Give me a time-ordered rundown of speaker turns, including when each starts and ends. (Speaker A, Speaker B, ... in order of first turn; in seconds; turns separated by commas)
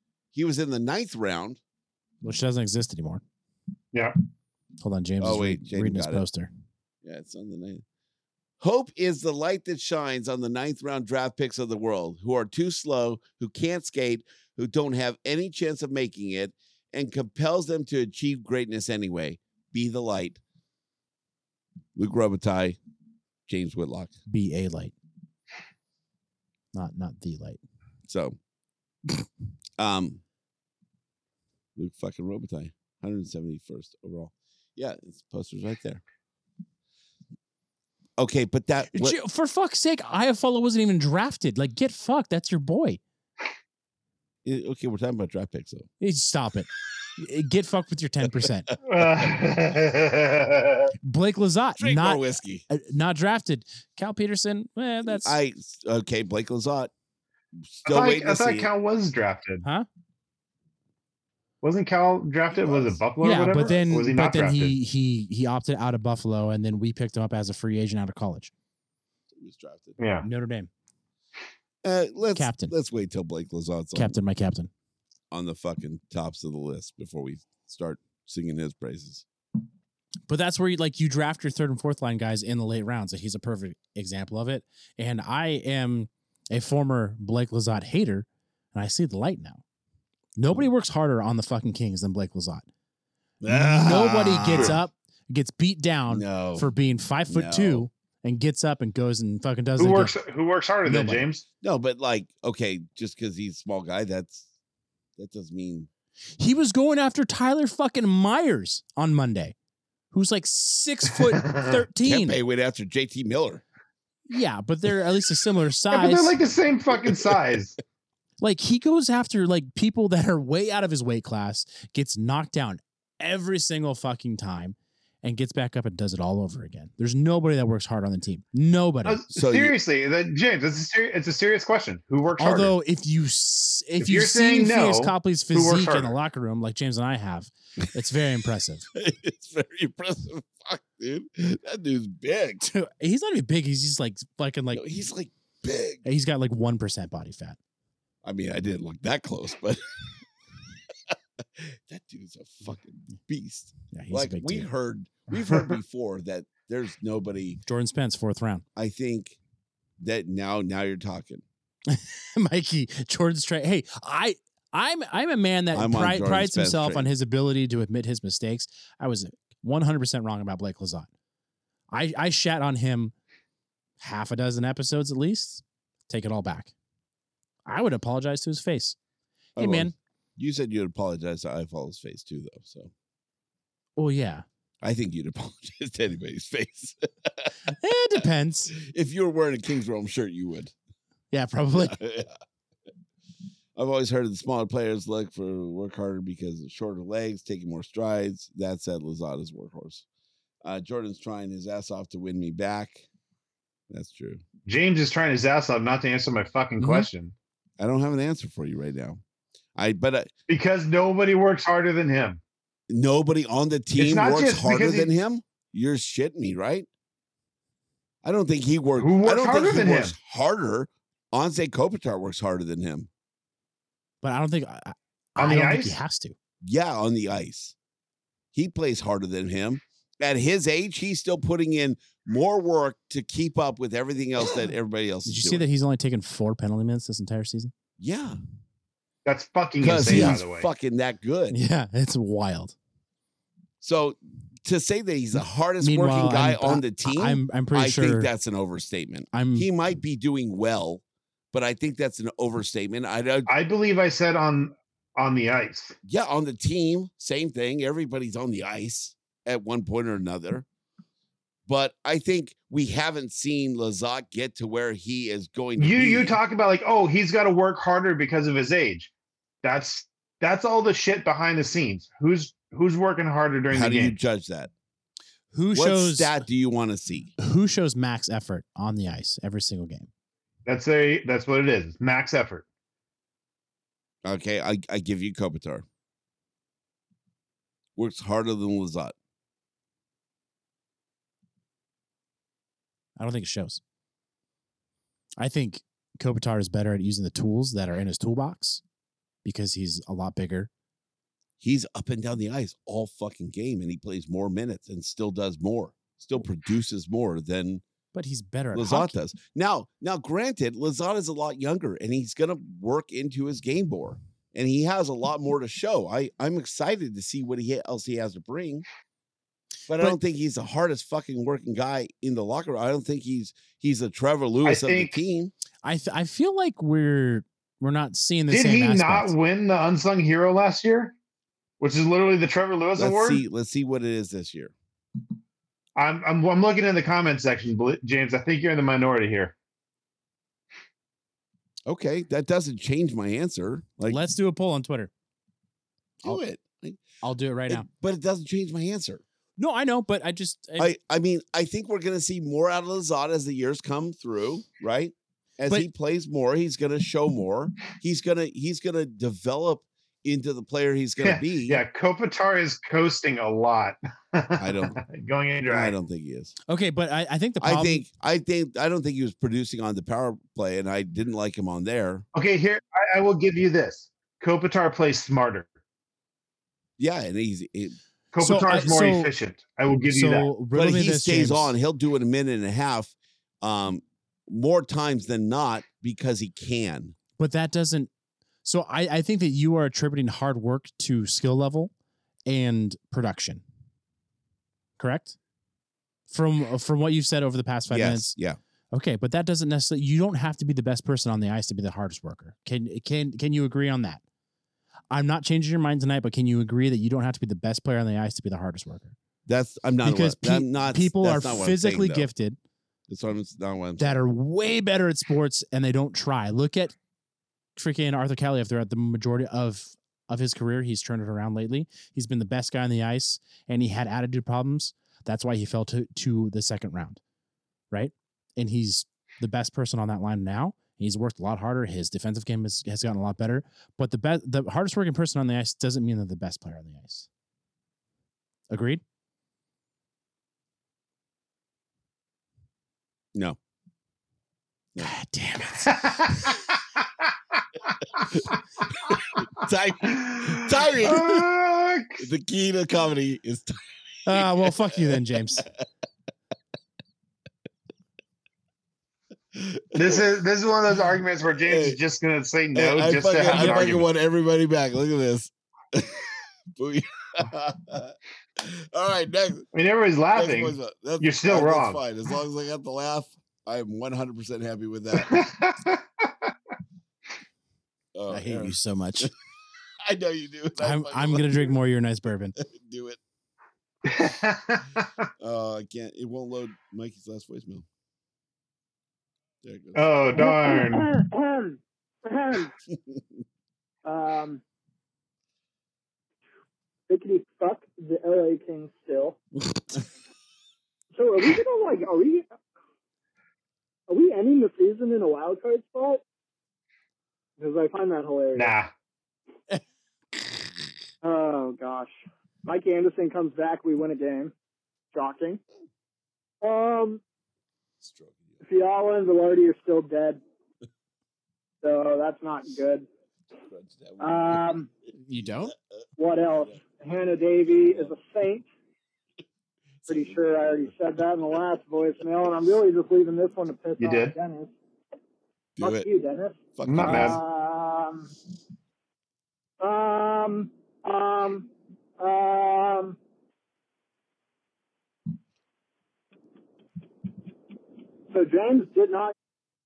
Speaker A: 0.3-1.6, Speaker B: 2.2-3.2, Speaker B: 4.8-6.5, Speaker A: 5.2-6.2, Speaker A: 7.0-7.8, Speaker A: 8.6-20.4, Speaker A: 22.0-22.8, Speaker A: 23.5-24.1, Speaker B: 24.3-24.9, Speaker B: 26.7-27.6, Speaker A: 28.1-28.4, Speaker A: 29.8-30.2, Speaker A: 31.8-36.0, Speaker A: 38.2-39.2, Speaker B: 38.9-43.0, Speaker A: 44.5-45.9, Speaker B: 46.0-48.7, Speaker C: 48.9-50.9, Speaker B: 51.0-55.4, Speaker A: 51.8-52.6, Speaker A: 55.0-56.9, Speaker A: 57.6-58.7, Speaker C: 57.9-59.6, Speaker C: 61.6-64.8, Speaker A: 62.5-63.0, Speaker B: 63.2-68.5, Speaker A: 63.5-63.9, Speaker A: 69.3-70.0, Speaker C: 70.0-70.3, Speaker B: 70.2-70.7, Speaker A: 71.8-74.2, Speaker B: 72.3-72.7, Speaker B: 74.0-74.7, Speaker A: 75.3-79.2, Speaker B: 80.3-89.6, Speaker B: 90.4-92.7, Speaker A: 93.4-94.8, Speaker B: 93.5-100.2, Speaker A: 96.1-96.7, Speaker A: 97.3-97.9, Speaker C: 99.8-101.5, Speaker B: 100.8-101.3, Speaker A: 101.6-104.5, Speaker A: 105.2-105.9, Speaker B: 106.4-109.5, Speaker B: 110.1-112.4, Speaker A: 112.0-113.6, Speaker B: 114.3-116.4, Speaker C: 115.9-117.8, Speaker B: 118.4-129.2, Speaker C: 129.1-132.8, Speaker A: 129.3-129.8, Speaker B: 132.4-138.9, Speaker C: 134.0-136.2, Speaker A: 138.9-142.7, Speaker B: 142.6-144.8, Speaker A: 144.7-146.1, Speaker B: 146.1-147.6, Speaker A: 148.2-150.2, Speaker A: 151.1-157.6, Speaker B: 153.9-154.7, Speaker B: 157.7-158.6, Speaker A: 158.8-159.4, Speaker A: 160.0-161.4, Speaker B: 161.9-171.1, Speaker A: 165.7-167.1, Speaker B: 171.9-173.1, Speaker B: 174.0-176.7, Speaker B: 177.7-179.0, Speaker A: 179.6-182.9, Speaker B: 179.6-179.9, Speaker B: 184.0-184.4, Speaker A: 184.8-187.6, Speaker B: 187.7-188.7, Speaker A: 188.7-190.7, Speaker B: 191.3-192.0, Speaker A: 191.8-192.3, Speaker A: 193.8-200.1, Speaker A: 200.6-203.1, Speaker A: 203.9-204.4, Speaker C: 204.7-207.3, Speaker B: 206.8-207.1, Speaker A: 207.8-209.2, Speaker A: 209.8-210.3, Speaker C: 210.5-212.4, Speaker A: 212.9-216.9, Speaker C: 214.0-215.1, Speaker A: 218.2-223.1, Speaker C: 219.0-220.2, Speaker B: 224.2-226.3, Speaker C: 225.4-226.0, Speaker A: 226.6-227.8, Speaker A: 228.5-235.7, Speaker B: 235.2-237.7, Speaker A: 238.0-238.4, Speaker C: 239.3-240.7, Speaker A: 239.8-241.6, Speaker B: 240.1-240.4, Speaker B: 241.5-242.8, Speaker A: 243.8-253.5, Speaker B: 245.8-248.3, Speaker B: 249.3-249.7, Speaker C: 253.5-255.9, Speaker A: 256.1-260.7, Speaker A: 261.7-266.4, Speaker C: 265.8-269.1, Speaker C: 269.6-274.2, Speaker A: 273.7-274.7, Speaker B: 275.5-276.4, Speaker A: 275.7-277.3, Speaker B: 277.4-280.1, Speaker C: 280.7-282.6, Speaker A: 284.2-285.9, Speaker A: 288.0-289.1, Speaker B: 293.2-293.8, Speaker B: 295.4-298.8, Speaker B: 299.4-300.7, Speaker A: 301.6-307.8, Speaker B: 308.1-309.1, Speaker A: 308.7-318.9, Speaker A: 319.9-325.5, Speaker C: 324.6-325.2, Speaker B: 325.8-329.3, Speaker C: 328.5-331.1, Speaker C: 331.8-333.4, Speaker A: 333.0-334.7, Speaker C: 336.0-339.6, Speaker A: 341.9-344.2, Speaker B: 344.1-345.1, Speaker A: 346.2-347.0, Speaker B: 347.2-347.9, Speaker A: 347.7-349.2, Speaker B: 349.6-350.9, Speaker A: 350.8-361.8, Speaker C: 361.2-365.9, Speaker A: 364.6-365.0, Speaker A: 365.7-366.6, Speaker B: 366.7-368.1, Speaker A: 367.6-372.2, Speaker C: 372.3-375.7, Speaker A: 377.0-378.0, Speaker C: 378.3-380.5, Speaker B: 378.4-379.3, Speaker B: 380.1-381.8, Speaker A: 380.7-387.2, Speaker B: 387.4-388.1, Speaker B: 388.6-391.9, Speaker B: 392.5-393.6, Speaker B: 395.0-395.4, Speaker B: 396.3-398.4, Speaker A: 397.9-398.6, Speaker B: 398.9-404.2, Speaker B: 405.1-409.1, Speaker A: 409.5-412.3, Speaker B: 410.0-412.6, Speaker A: 413.1-414.2, Speaker B: 414.0-417.0, Speaker B: 417.8-427.2, Speaker B: 427.9-437.3, Speaker B: 438.7-439.0, Speaker B: 445.0-446.5, Speaker C: 446.0-446.6, Speaker A: 449.1-451.5, Speaker C: 450.2-452.2, Speaker A: 452.2-455.7, Speaker B: 454.3-455.6, Speaker A: 459.5-460.2, Speaker C: 459.9-464.1, Speaker A: 461.6-462.0, Speaker A: 462.7-469.7, Speaker B: 463.5-463.8, Speaker C: 469.7-472.0, Speaker A: 470.3-475.5, Speaker C: 475.2-476.0, Speaker A: 478.1-479.3, Speaker B: 478.3-479.3, Speaker A: 480.0-481.8, Speaker B: 480.8-482.6, Speaker A: 482.6-483.2, Speaker C: 484.1-485.1, Speaker A: 485.4-487.9, Speaker A: 489.6-490.3, Speaker C: 489.9-491.1, Speaker D: 490.3-492.7, Speaker A: 492.9-493.2, Speaker D: 494.1-494.6, Speaker D: 497.1-499.4, Speaker D: 501.1-502.5, Speaker D: 504.1-506.2, Speaker D: 507.6-508.7, Speaker C: 508.6-508.9, Speaker D: 511.2-514.5, Speaker D: 515.1-515.6, Speaker D: 516.6-517.2, Speaker A: 518.0-518.6, Speaker D: 518.6-520.4, Speaker D: 521.8-523.1, Speaker A: 523.7-524.7, Speaker D: 524.2-524.9, Speaker B: 525.1-525.8, Speaker A: 525.4-525.7, Speaker D: 526.2-528.7, Speaker A: 527.8-528.1, Speaker A: 530.0-530.9, Speaker D: 530.1-534.7, Speaker C: 534.0-534.3, Speaker A: 535.8-536.1, Speaker D: 535.8-538.3, Speaker A: 536.8-537.4, Speaker C: 536.9-537.4, Speaker D: 539.8-543.2, Speaker D: 548.3-549.3